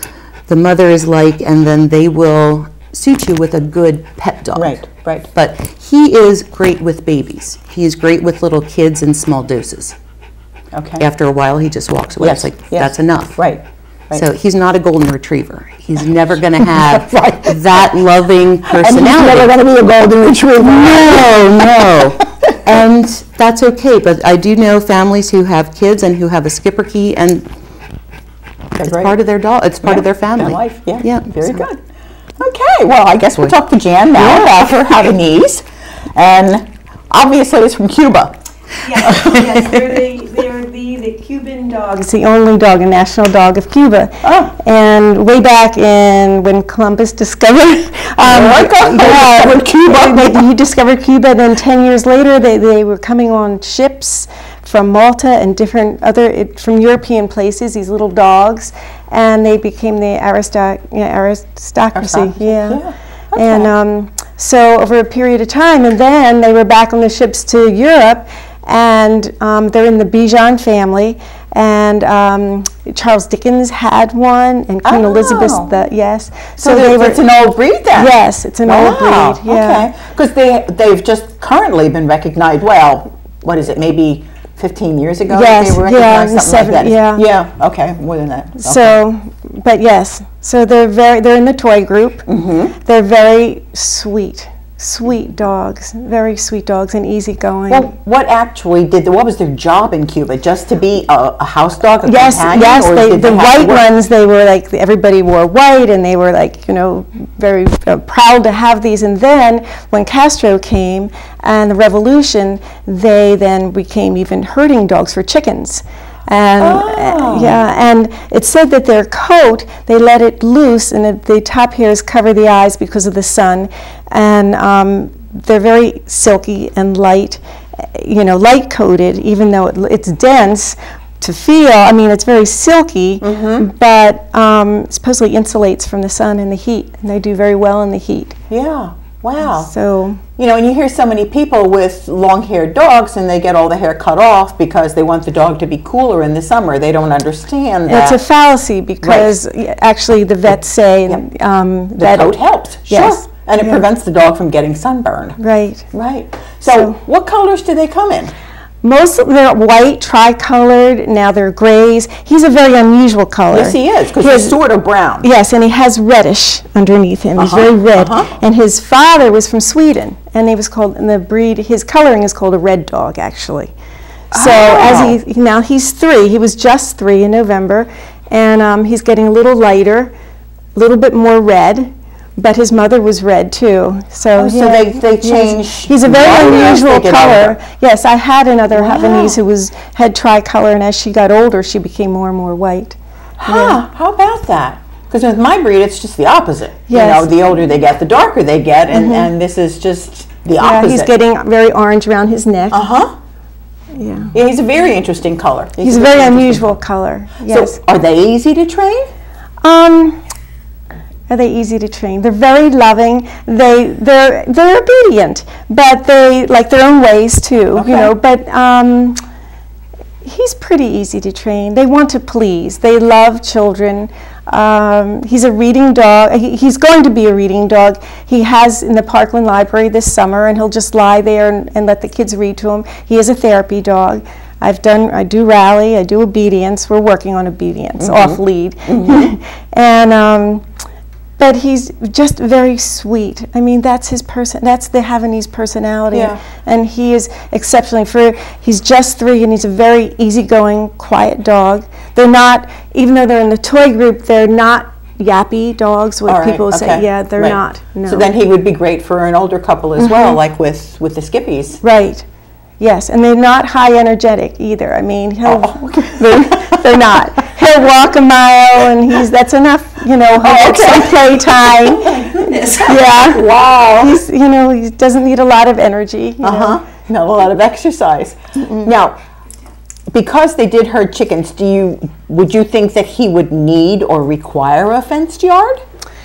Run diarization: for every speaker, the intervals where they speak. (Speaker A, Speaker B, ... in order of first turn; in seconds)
Speaker A: 0.5-10.0, 11.0-13.4, 14.1-19.5, 20.6-27.4, 28.8-31.7
Speaker B: 4.5-5.3, 10.7-11.0, 12.2-14.2, 16.6-17.8, 18.6-21.6, 28.8-29.1, 29.8-31.8, 32.4-38.4, 38.9-39.7, 44.2-44.5, 48.2-50.4, 61.9-63.7, 74.8-75.7, 76.6-89.0, 92.3-92.7, 97.7-103.9, 116.6-117.6, 133.2-133.6, 138.5-139.7, 140.4-148.2, 149.0-149.3, 152.0-155.4, 155.9-158.3, 163.5-165.3, 167.4-168.3, 174.3-175.1, 184.3-187.6, 188.8-189.4, 193.4-201.1, 202.7-203.1, 204.3-206.6, 207.5-209.1, 217.8-218.1, 238.0-239.3, 246.1-246.4, 256.2-261.8, 265.4-267.2, 270.4-274.2, 276.4-279.2, 280.1-285.8
Speaker C: 38.8-62.8, 63.3-77.2, 77.9-79.9, 85.3-87.2, 88.6-97.9, 102.0-138.4, 139.6-140.2, 147.9-152.4, 152.9-153.8, 155.4-155.9, 156.6-157.0, 158.8-164.6, 165.2-173.7, 174.3-180.1, 180.7-193.8, 196.9-197.3, 198.9-199.3, 200.6-202.9, 203.9-204.3, 205.8-207.8, 209.6-210.2, 211.3-219.2, 220.2-240.7, 241.4-258.3, 260.0-260.4, 261.8-262.2, 262.8-276.8, 278.6-278.9